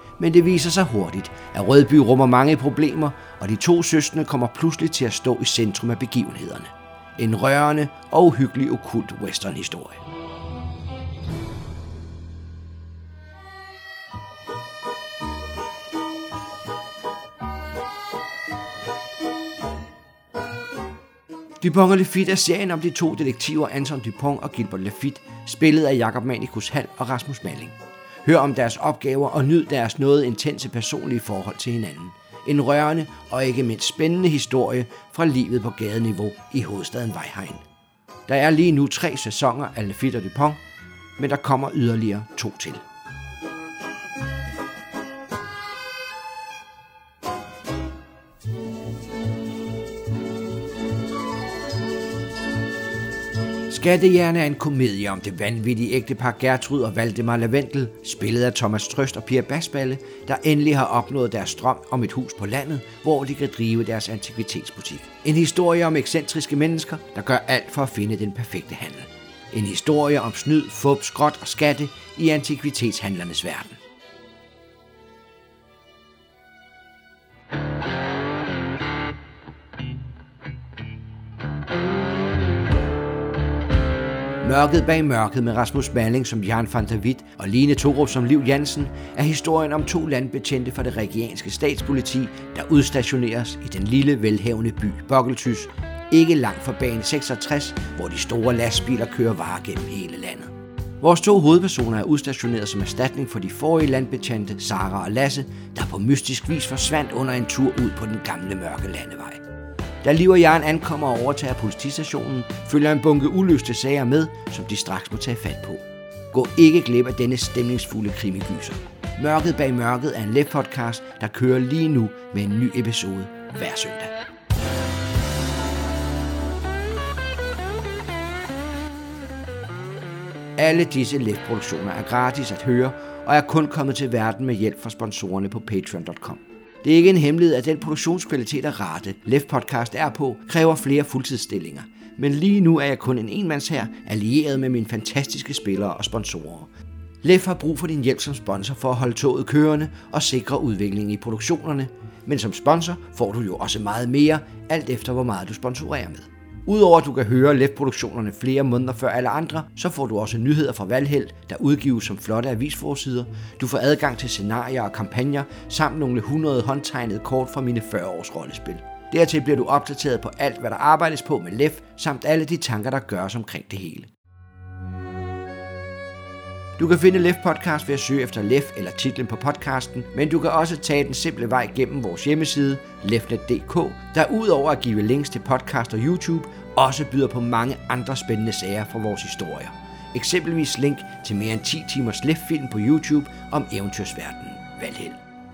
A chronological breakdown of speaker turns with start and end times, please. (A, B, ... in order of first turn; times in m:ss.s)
0:00.2-0:10.0 A
0:21.6-0:37.6 A
0:38.3-0:40.6 A
0:41.2-0:42.8 A
0:53.7-1:13.8 A
1:24.4-1:49.4 A
1:50.0-2:04.1 A
2:10.6-2:26.7 A
2:27.2-2:54.1 A
2:56.8-3:15.2 A